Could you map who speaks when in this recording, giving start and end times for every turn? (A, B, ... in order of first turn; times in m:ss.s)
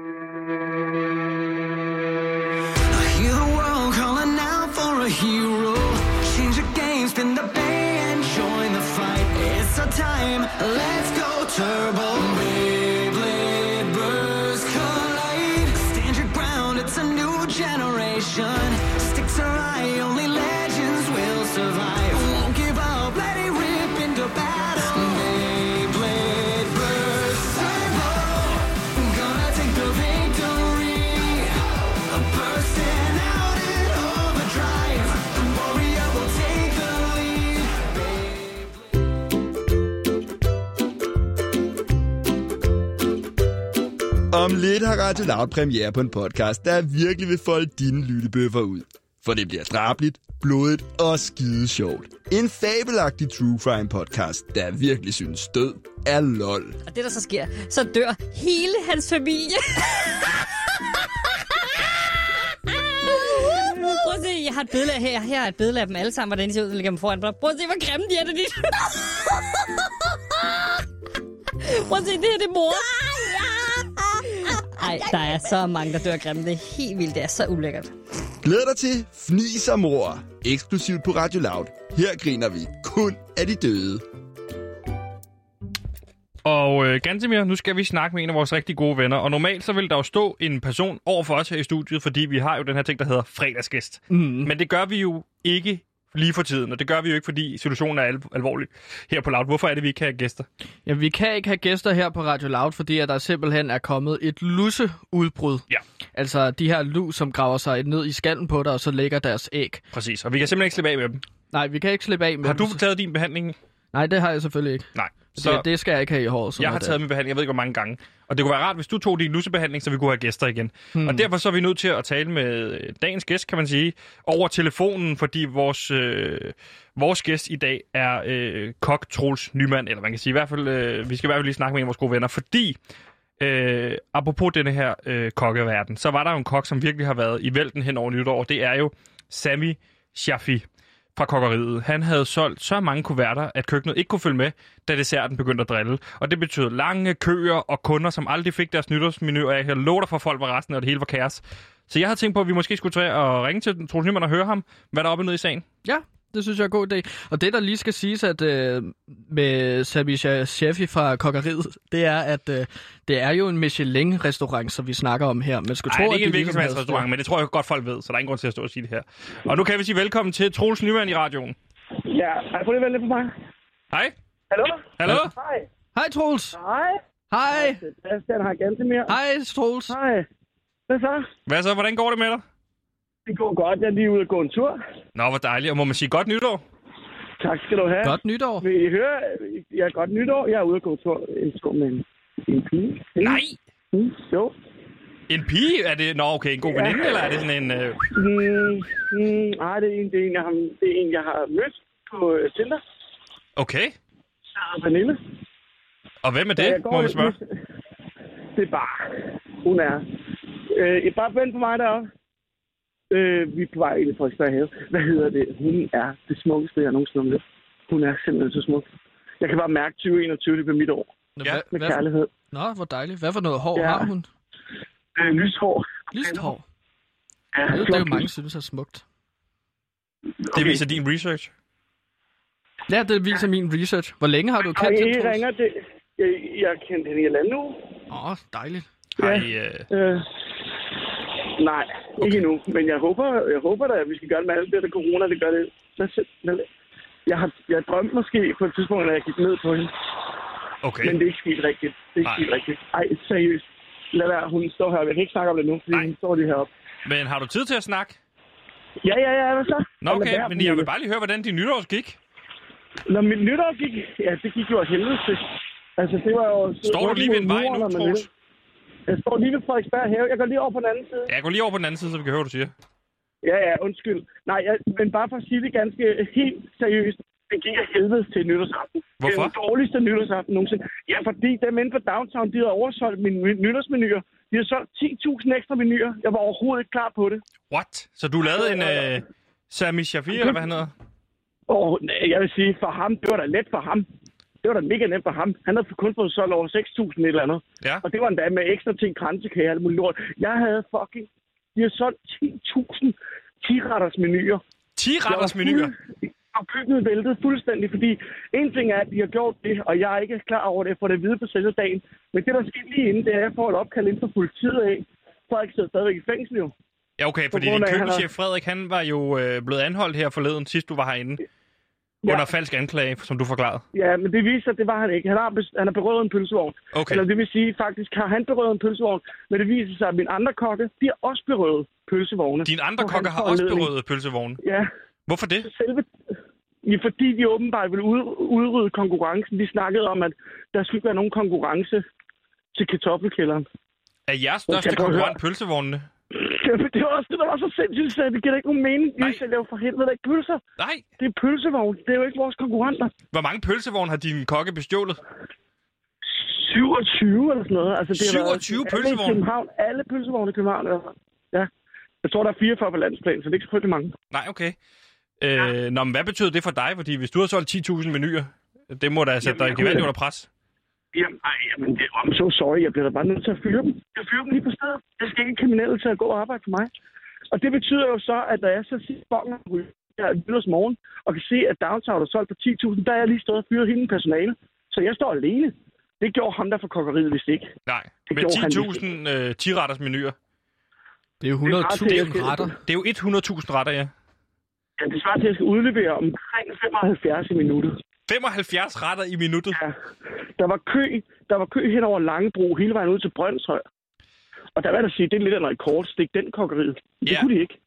0:02.9-0:38.8 A
0:44.3-0:56.8 B
0:56.8-1:00.2 C
1:01.4-1:01.8 C
1:02.7-1:09.7 C
1:11.6-1:17.9 C
1:18.4-1:24.0 B
1:26.4-1:40.5 D
1:34.1-1:34.5 E
1:40.8-1:49.8 E
1:49.9-1:51.2 D
1:51.5-1:52.8 E
1:52.4-1:53.6 D
1:53.9-1:57.0 E
1:54.9-1:55.6 D
1:56.6-2:12.8 D
2:00.9-2:01.3 E
2:13.4-2:20.6 D
2:21.2-2:35.6 D
2:35.8-2:47.1 E
2:45.9-2:51.6 D
2:52.0-2:53.3 F
2:54.5-2:55.7 F
2:55.0-2:55.3 D
2:55.9-2:56.6 E
2:56.5-2:57.0 F
2:57.3-2:57.8 E
2:57.5-2:59.2 F
2:59.1-3:00.0 E
2:59.9-3:00.2 F
3:00.9-3:01.3 F
3:01.5-3:02.4 D
3:03.2-3:04.8 F
3:05.2-3:06.6 D
3:07.4-3:13.4 F
3:08.0-3:08.6 E
3:13.2-3:13.6 D
3:13.9-3:14.5 F
3:15.3-3:18.0 D
3:16.7-3:17.1 F
3:18.1-3:22.8 F
3:23.6-3:23.9 D
3:24.5-3:25.2 F
3:26.2-3:27.4 D
3:26.6-3:27.4 F
3:28.5-3:30.1 F
3:30.7-3:32.1 F
3:33.1-3:38.8 F
3:39.4-3:41.1 F
3:41.4-3:44.3 E
3:41.7-3:42.3 F
3:43.7-3:44.1 F
3:45.2-3:46.5 F
3:46.1-3:46.6 E
3:47.5-3:48.3 F
3:47.7-3:49.0 E
3:50.5-3:50.8 F
3:50.5-3:51.5 D
3:52.9-3:55.4 E
3:54.7-3:57.8 F
3:58.1-3:58.9 E
3:59.2-3:59.9 D
3:59.2-4:00.4 F
4:01.6-4:06.7 F
4:02.2-4:02.4 D
4:07.2-4:10.0 F
4:10.8-4:11.2 D
4:11.0-4:16.7 F
4:17.0-4:18.2 D
4:19.0-4:20.9 F
4:20.0-4:22.2 D
4:23.1-4:28.3 F
4:26.8-4:28.3 D
4:29.1-4:31.3 F
4:31.3-4:32.7 D
4:33.4-4:47.4 F
4:39.2-4:39.5 D
4:47.7-4:50.9 D
4:48.4-4:49.1 F
4:51.7-4:54.1 F
4:54.6-5:04.6 F
5:05.0-5:05.9 D
5:05.2-5:16.7 F
5:17.2-5:21.4 D
5:17.5-5:18.3 F
5:22.2-5:23.8 D
5:23.9-5:33.9 F
5:26.9-5:27.2 D
5:32.6-5:34.6 D
5:34.6-5:34.9 F
5:35.3-5:35.7 D
5:35.6-5:36.1 F
5:36.8-5:42.0 F
5:42.7-5:43.6 F
5:44.3-5:46.1 D
5:44.7-5:45.4 F
5:46.3-5:50.6 F
5:50.8-5:51.0 D
5:51.2-5:53.1 F
5:53.3-5:55.2 D
5:56.3-6:01.7 F
5:58.1-5:59.4 D
6:02.2-6:04.1 F
6:04.3-6:04.8 D
6:05.4-6:10.5 D
6:09.4-6:10.0 F
6:11.1-6:16.9 F
6:17.5-6:27.7 F
6:27.9-6:30.4 D
6:28.3-6:29.0 F
6:31.4-6:32.7 E
6:31.6-6:32.8 F
6:32.8-6:34.1 D
6:35.0-6:38.0 F
6:38.3-6:39.8 D
6:40.6-6:43.8 F
6:44.8-6:47.8 F